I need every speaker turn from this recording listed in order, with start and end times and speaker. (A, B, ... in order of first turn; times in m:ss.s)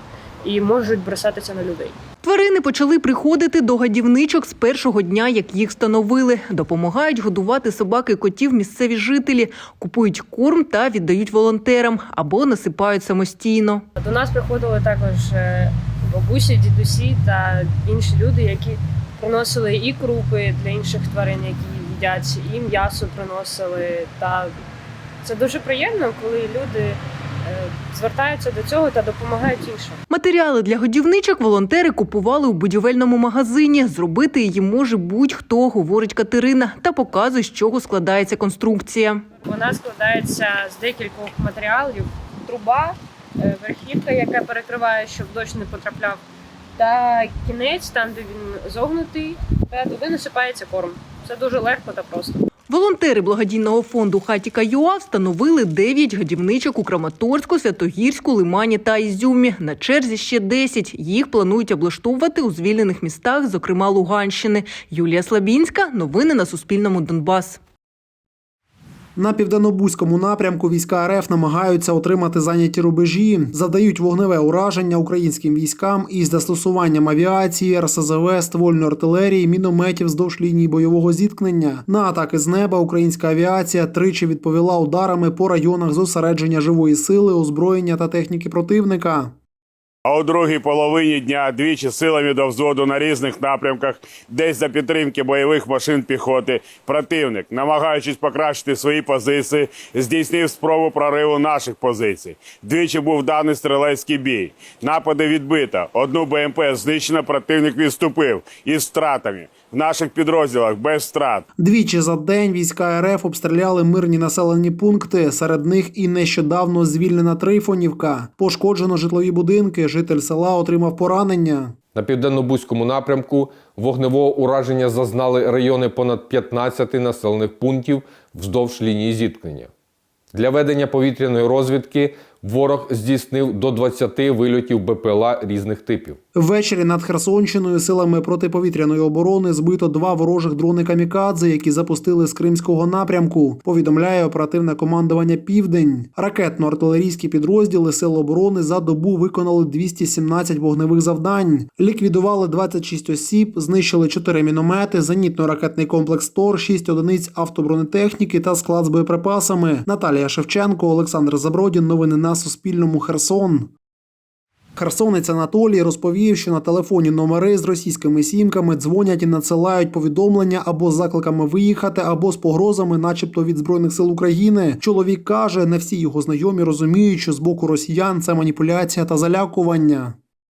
0:00.4-0:01.9 A
0:02.2-0:13.8 B
0:14.0-0:24.5 A
0:25.2-0:30.0 A
0:30.1-0:39.2 B
0:39.4-0:46.2 A
0:46.8-0:52.4 A
0:52.7-1:07.6 B
1:09.2-1:29.3 C
1:30.1-1:51.4 D
1:51.6-2:01.8 C
2:02.0-2:04.1 D
2:02.0-2:09.7 E
2:04.6-2:05.1 D
2:06.2-2:08.0 D
2:08.7-2:09.1 D
2:10.3-2:16.1 E
2:10.6-2:11.9 D
2:13.1-2:16.2 D
2:16.3-2:43.7 C
2:44.8-3:00.2 C